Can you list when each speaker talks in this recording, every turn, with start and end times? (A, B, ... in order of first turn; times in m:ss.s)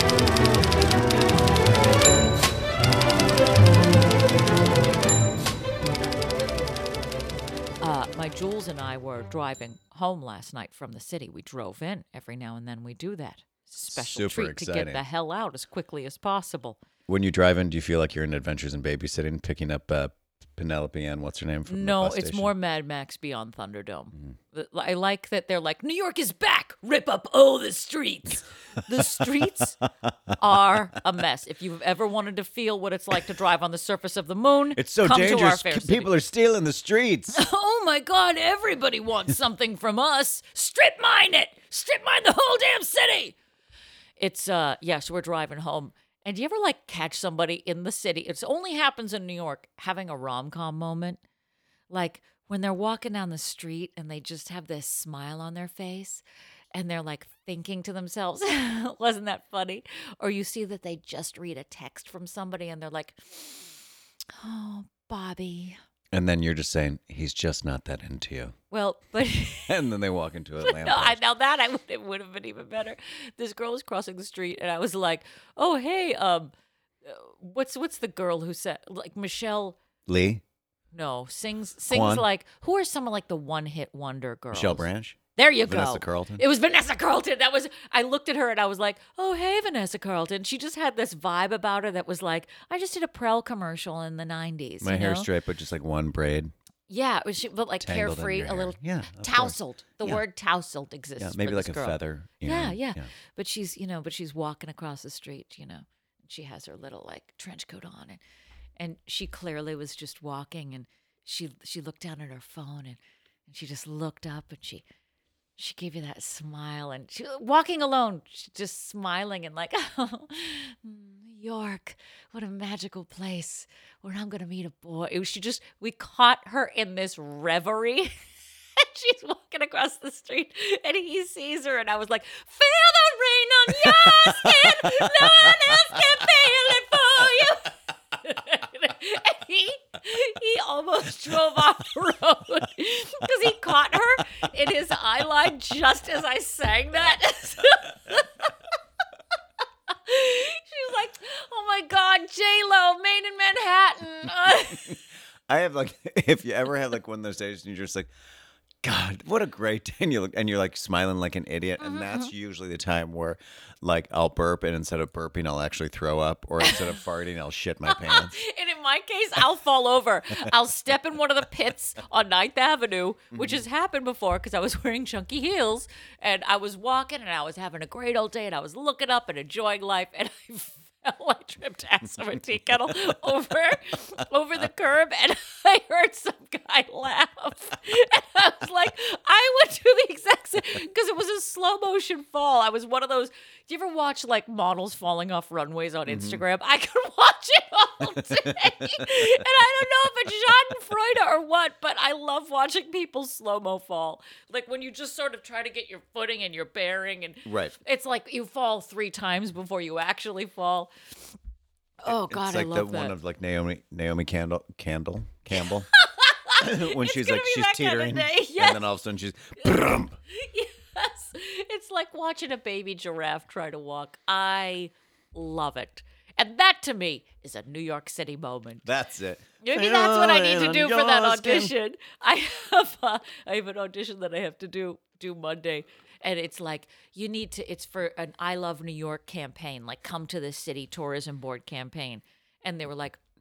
0:07.8-0:16.8 A
0:13.9-0:15.0 B
0:17.1-0:22.5 B
0:21.7-0:29.8 A
0:28.9-0:29.2 B
0:30.0-0:30.3 B
0:30.4-0:36.1 A
0:34.8-0:37.4 B
0:37.3-0:43.4 A
0:44.2-0:51.2 A
0:51.9-0:56.2 A
0:56.7-1:03.8 A
1:04.4-1:05.8 A
1:06.1-1:08.5 B
1:08.7-1:09.8 A
1:09.7-1:11.2 B
1:10.6-1:16.5 A
1:17.0-1:19.8 A
1:20.1-1:20.4 B
1:20.9-1:35.3 A
1:21.9-1:22.2 B
1:24.5-1:26.4 B
1:34.8-1:36.5 B
1:36.9-1:48.2 A
1:37.8-1:40.2 B
1:41.2-1:43.1 B
1:48.8-1:54.8 A
1:55.6-2:08.1 A
2:08.8-2:28.5 A
2:13.8-2:16.2 B
2:29.9-2:35.0 A
2:34.7-2:35.0 B
2:35.5-2:38.1 B
2:38.8-2:48.4 B
2:41.8-2:42.3 A
2:47.8-3:30.9 A
2:53.3-2:53.6 B
3:02.2-3:03.0 B
3:16.1-3:16.4 B
3:18.4-3:19.4 B
3:27.4-3:27.7 B
3:32.0-3:33.2 A
3:32.1-3:35.9 B
3:35.6-3:38.8 A
3:36.6-3:40.2 B
3:40.3-3:48.9 A
3:48.8-3:51.7 B
3:49.6-4:03.2 A